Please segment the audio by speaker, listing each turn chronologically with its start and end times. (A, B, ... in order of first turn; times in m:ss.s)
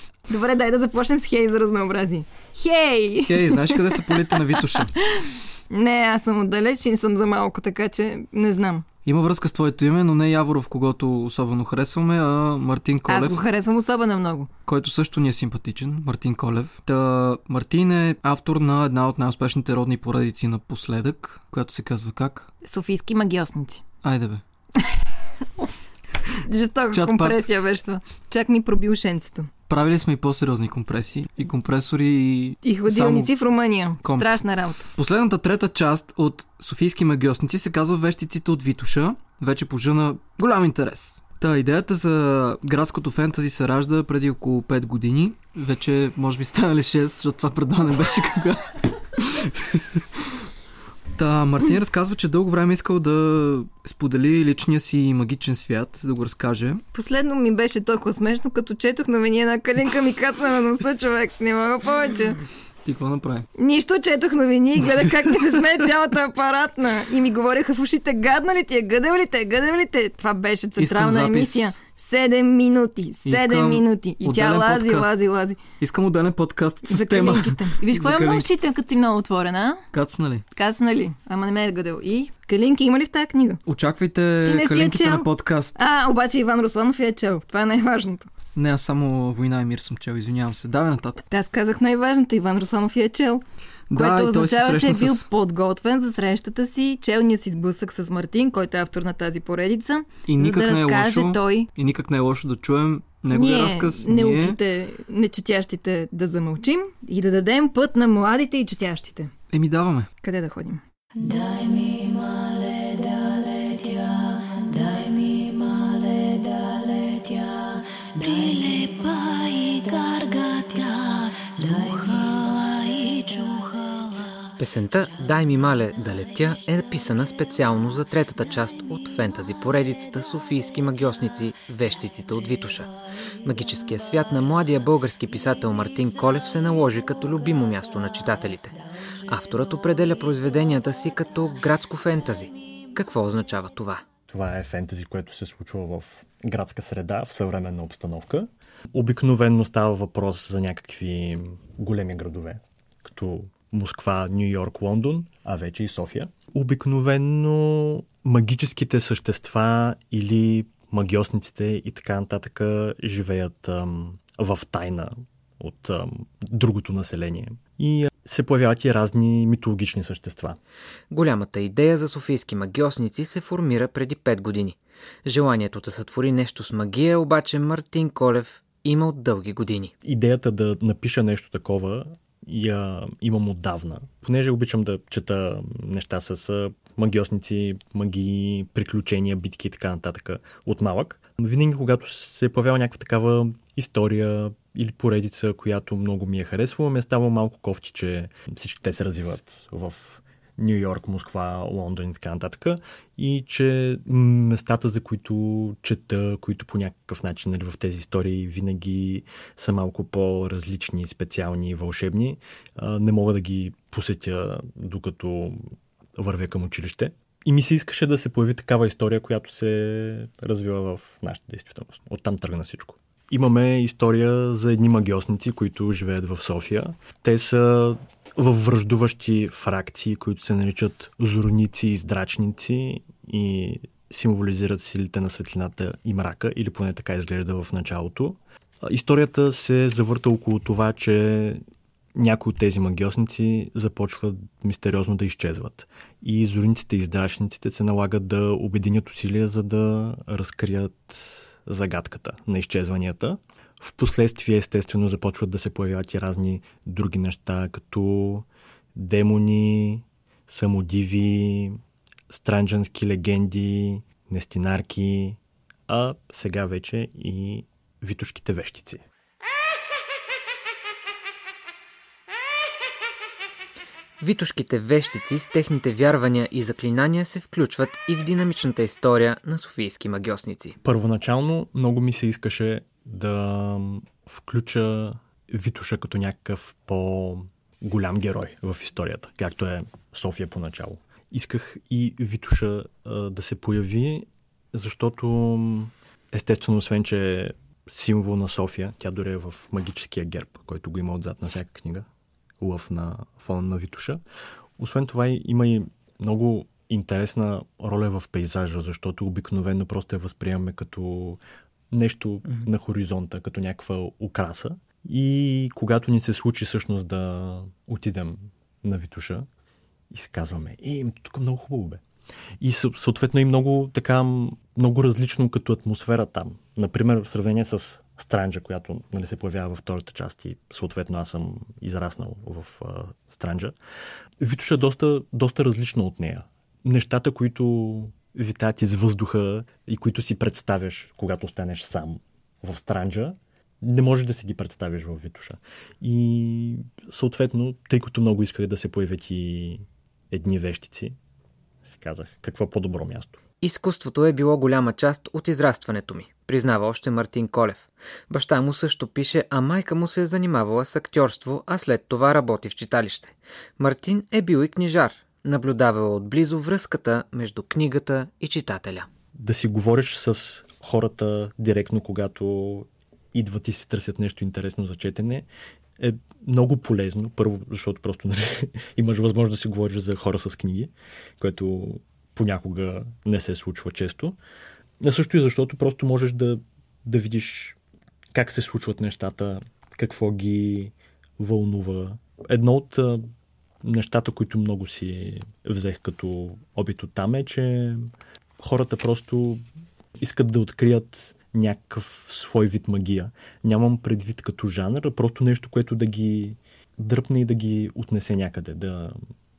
0:00.3-0:04.1 A
0:03.3-0:04.9 B
0:04.7-0:08.9 A
0:09.0-0:13.4 B
0:13.1-0:14.5 A
0:14.7-0:22.5 B
0:22.6-0:23.8 A
0:24.0-0:24.4 B
0:26.3-0:29.5 A
0:26.9-0:27.4 B
0:29.7-0:33.3 B
0:32.6-0:34.9 A
0:34.0-0:34.3 B
0:34.9-0:50.4 B
0:51.2-0:56.8 B
0:56.9-1:02.4 A
1:02.8-1:03.4 B
1:03.6-1:15.7 A
1:04.9-1:05.4 B
1:10.8-1:11.8 B
1:13.2-1:18.6 B
1:16.9-1:19.8 A
1:19.9-1:20.4 B
1:20.5-1:23.6 A
1:23.7-1:25.8 B
1:24.4-1:28.3 A
1:28.5-1:31.2 B
1:31.2-1:41.7 A
1:33.9-1:35.3 B
1:40.2-1:44.6 B
1:43.3-1:49.3 A
1:49.5-1:50.1 B
1:50.2-1:50.8 A
1:51.2-2:04.4 C
2:04.6-2:24.0 D
2:24.3-2:50.6 E
2:51.1-2:59.9 D
3:00.0-4:01.6 E
4:02.2-4:29.0 E
4:34.2-4:40.8 D
4:40.8-5:02.1 E
5:02.6-5:04.2 E
5:04.8-5:11.4 E
5:11.9-5:19.5 E
5:20.1-5:22.0 E
5:22.6-5:33.8 E
5:34.4-5:51.1 E
5:51.8-5:53.3 E
5:53.6-6:09.1 D
6:09.4-6:15.5 E
6:16.0-6:24.4 E
6:25.0-6:27.8 E
6:28.3-6:33.3 E
6:33.8-6:39.6 E
6:40.2-6:49.2 E